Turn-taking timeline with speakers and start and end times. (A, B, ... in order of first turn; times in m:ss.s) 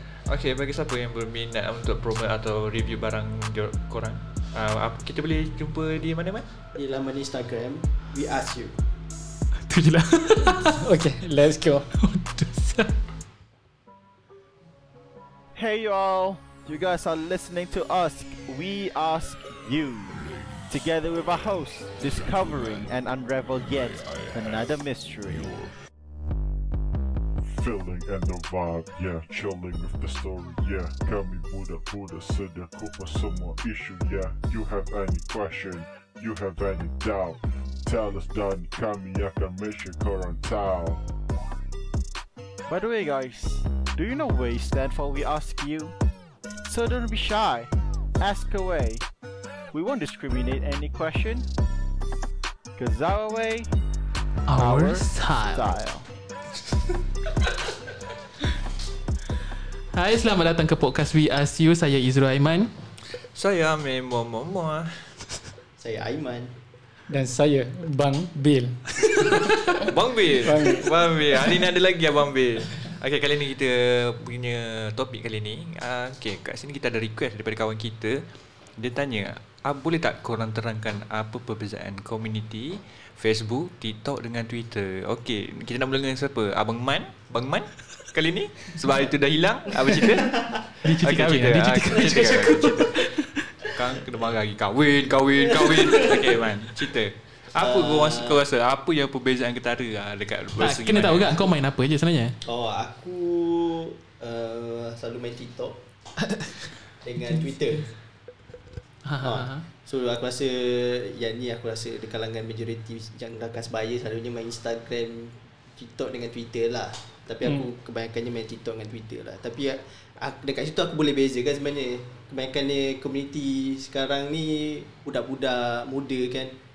0:00.3-0:06.5 A
0:06.8-0:08.7 B
0:09.7-0:10.8 C
0:10.7-0:11.8 D
0:12.0-0:12.9 C
0:15.6-0:25.7 E
0:27.5-0:41.0 F
0:42.7-0:46.0 E
0:46.7-0:49.0 E
0:49.7-0:51.5 E
0:52.8-0:53.7 E
0:54.5-0:55.7 C
0:54.5-0:56.0 E
0:59.9-1:02.7 C
1:03.4-1:05.0 A
1:05.8-1:06.5 B
1:07.1-1:09.9 D
1:09.8-1:18.2 A
1:10.4-1:10.9 D
1:18.8-1:33.0 A
1:30.0-1:30.6 B
1:30.8-1:33.4 C
1:32.0-1:32.6 B
1:33.7-1:41.4 A
1:35.4-1:36.5 B
1:37.6-1:38.4 B
1:40.6-1:42.4 C
1:42.5-1:45.8 B
1:46.2-1:46.7 C
1:47.0-1:47.9 B
1:49.0-1:49.6 C
1:49.2-2:06.5 B